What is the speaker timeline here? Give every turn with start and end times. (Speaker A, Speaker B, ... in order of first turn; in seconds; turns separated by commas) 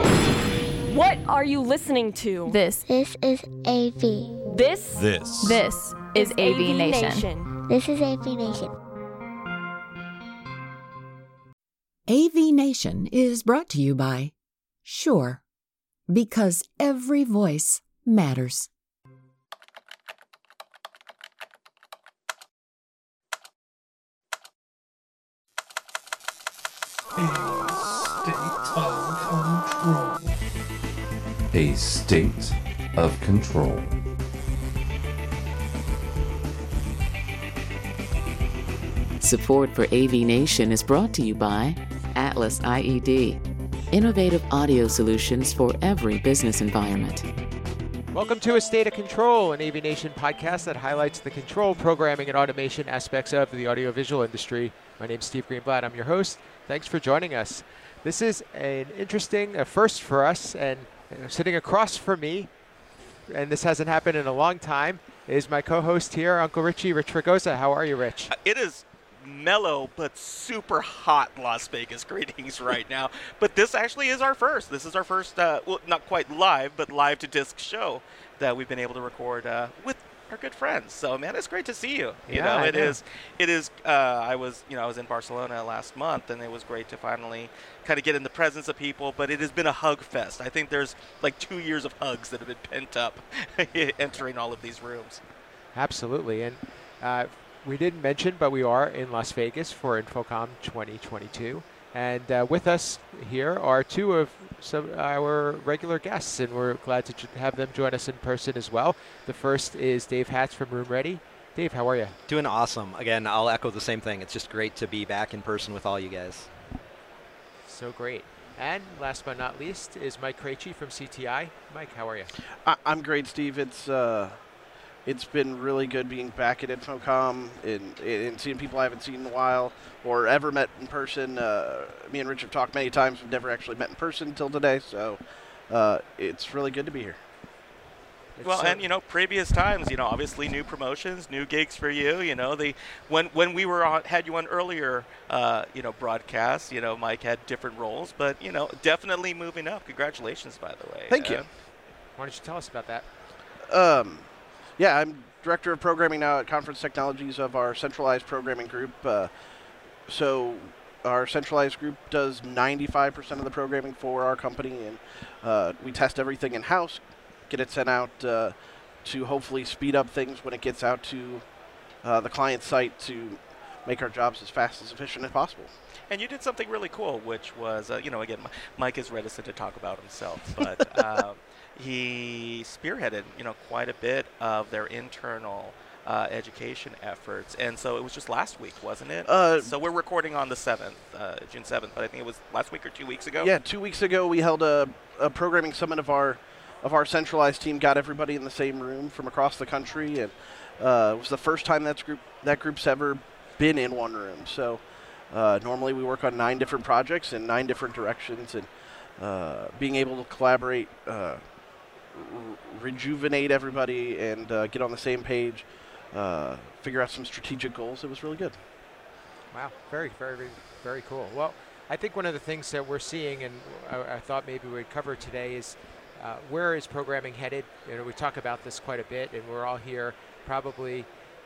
Speaker A: 0.9-2.6, Speaker B: 2.5-2.9, Speaker C: 2.9-4.4, Speaker A: 4.5-5.0, Speaker D: 4.9-5.6, Speaker B: 5.4-7.3, Speaker A: 6.0-7.5, Speaker C: 7.7-8.8, Speaker E: 12.1-15.4, Speaker E: 16.1-18.7, Speaker D: 28.2-30.0, Speaker D: 31.5-33.9, Speaker F: 39.2-47.3, Speaker G: 48.1-62.5, Speaker G: 63.3-68.3, Speaker H: 68.3-95.2, Speaker G: 82.3-83.0, Speaker G: 95.8-112.2, Speaker I: 112.3-116.5, Speaker G: 117.7-122.3, Speaker J: 122.6-124.4, Speaker J: 125.1-137.2, Speaker G: 138.4-138.8, Speaker H: 138.4-151.5, Speaker J: 151.1-151.4, Speaker G: 152.2-153.1, Speaker J: 153.7-159.3, Speaker J: 160.1-171.4, Speaker J: 172.0-175.7, Speaker H: 176.1-193.5, Speaker J: 189.3-189.7, Speaker J: 193.4-211.4, Speaker J: 212.1-218.6, Speaker G: 219.5-231.1